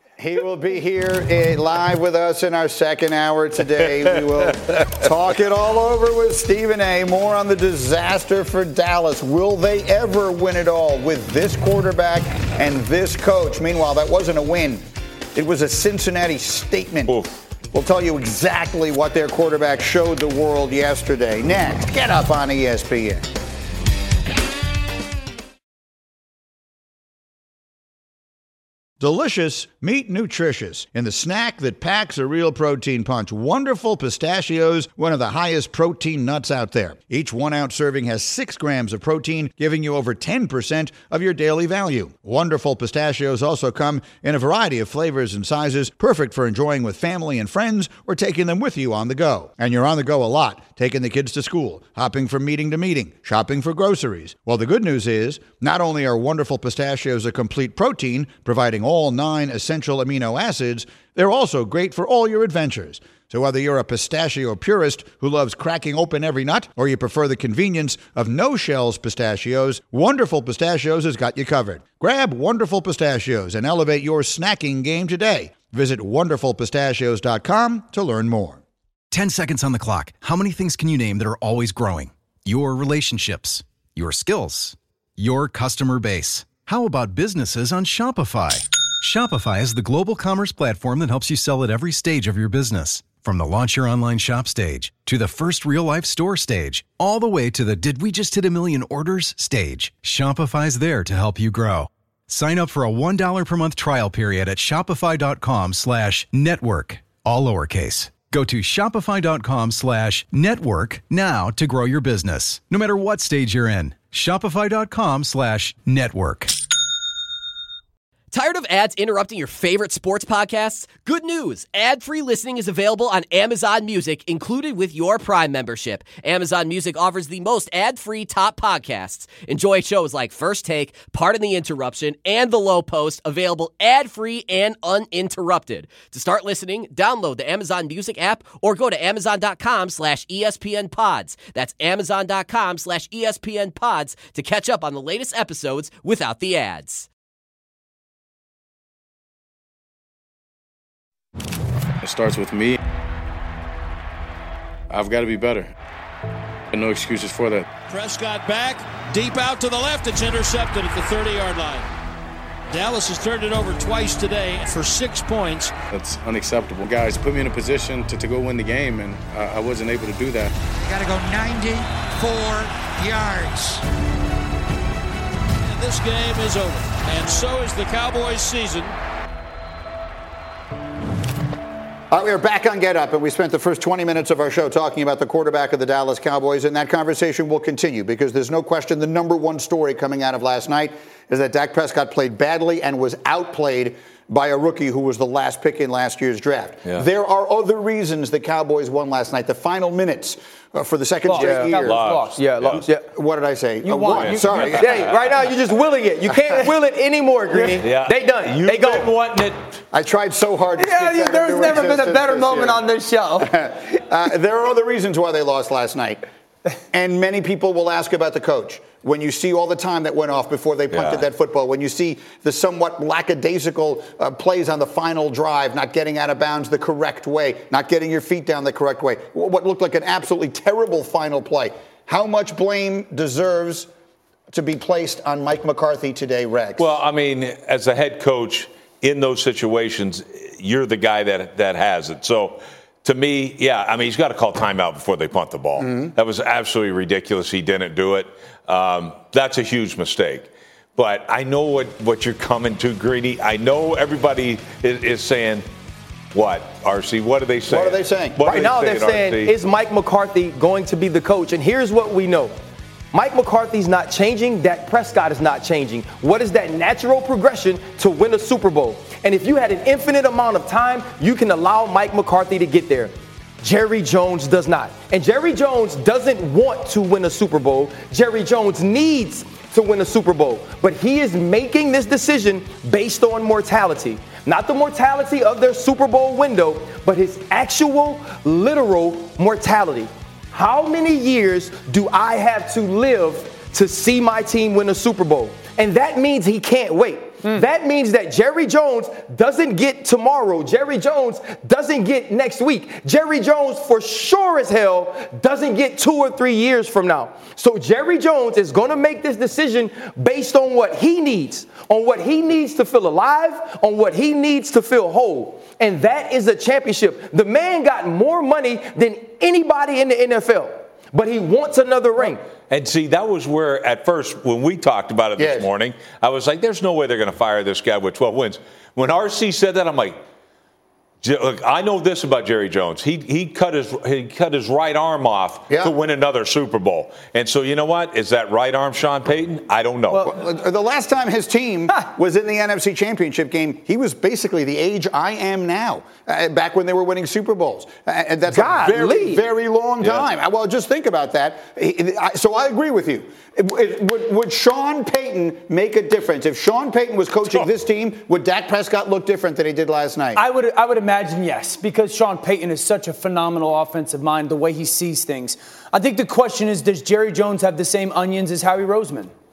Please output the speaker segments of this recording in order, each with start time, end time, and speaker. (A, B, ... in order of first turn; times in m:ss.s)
0:00.2-0:14.8 A
0:15.3-0:17.1 A
0:17.7-0:23.2 A
0:29.0-1:18.6 A
1:19.1-1:56.6 B
1:58.3-2:27.1 C
2:32.0-2:32.8 D
2:34.9-2:35.7 D
2:36.7-2:37.7 D
2:37.9-2:41.9 E
2:42.7-2:45.7 E
2:45.9-2:50.5 D
2:50.7-2:53.8 F
2:55.6-2:58.9 E
3:02.1-3:22.1 A
3:21.3-3:22.4 G
3:21.3-3:21.7 H
3:21.8-3:22.9 I
3:22.4-3:23.0 H
3:23.0-3:25.1 A
3:23.8-3:24.6 G
3:24.1-3:25.5 I
3:24.7-3:29.1 H
3:27.8-3:29.6 I
3:29.9-3:32.8 A
3:30.8-3:33.5 G
3:33.4-3:36.2 A
3:36.9-3:53.9 A
3:40.9-3:41.2 I
3:54.5-3:56.9 A
3:56.8-4:15.6 I
4:16.3-4:19.5 I
4:17.7-4:18.4 A
4:18.4-4:22.5 H
4:23.1-5:22.4 H
5:22.7-5:30.2 I
5:25.4-5:25.7 A
5:31.2-5:40.3 I
5:40.1-6:00.4 A
5:48.5-5:49.4 H
6:00.3-6:09.3 G